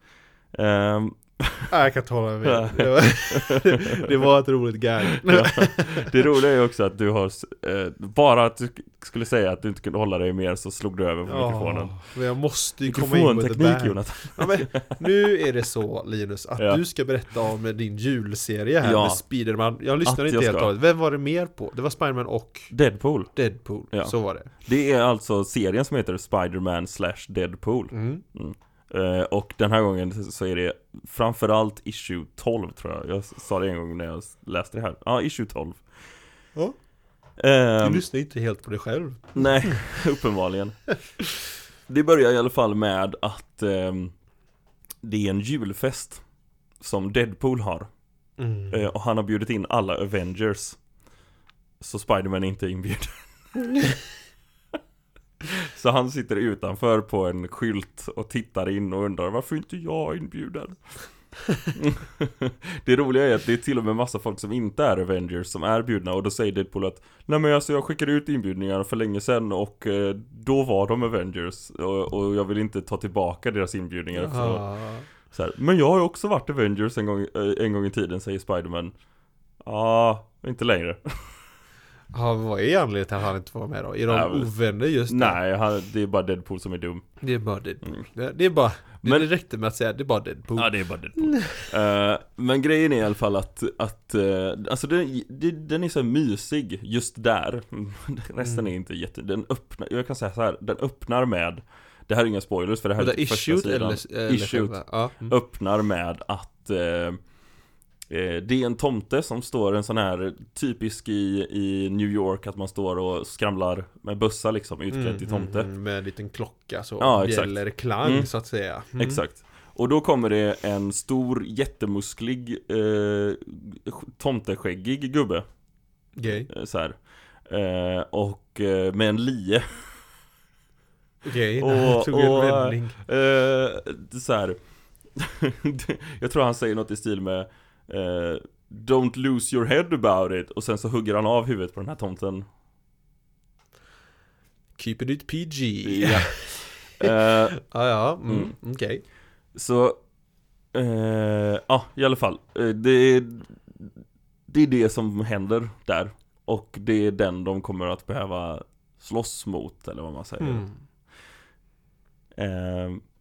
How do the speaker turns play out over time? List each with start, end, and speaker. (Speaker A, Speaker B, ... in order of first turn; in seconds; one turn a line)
Speaker A: 0.5-1.7
Speaker B: 1.7-6.3
Speaker A: 2.4-4.0
Speaker A: 5.0-12.0
Speaker B: 11.3-22.7
Speaker A: 12.8-15.0
Speaker A: 18.8-19.2
Speaker A: 20.0-20.7
Speaker A: 22.7-23.3
Speaker B: 23.3-24.5
Speaker A: 23.9-35.8
Speaker B: 27.9-28.2
Speaker A: 37.4-38.0
Speaker B: 37.8-39.8
Speaker A: 39.3-40.8
Speaker A: 41.9-44.1
Speaker A: 45.0-46.2
Speaker A: 46.8-47.9
Speaker B: 48.4-48.8
Speaker A: 48.7-50.8
Speaker A: 51.8-53.8
Speaker A: 55.4-60.8
Speaker A: 61.7-74.6
Speaker B: 74.1-75.1
Speaker A: 75.2-78.9
Speaker A: 79.6-81.2
Speaker B: 82.1-85.4
Speaker A: 84.1-84.5
Speaker A: 85.1-87.0
Speaker B: 87.2-91.7
Speaker A: 90.5-107.2
Speaker B: 98.4-98.7
Speaker B: 103.0-105.3
Speaker A: 108.1-115.7
Speaker B: 114.9-119.2
Speaker A: 117.0-118.3
Speaker A: 119.0-125.4
Speaker B: 126.2-126.5
Speaker A: 126.3-129.8
Speaker B: 131.2-133.0
Speaker A: 131.6-134.6
Speaker A: 135.2-142.5
Speaker B: 144.8-149.0
Speaker A: 145.8-147.6
Speaker A: 148.2-148.5
Speaker A: 149.5-150.0
Speaker A: 150.7-153.9
Speaker A: 154.5-160.7
Speaker B: 160.4-160.8
Speaker A: 162.3-163.0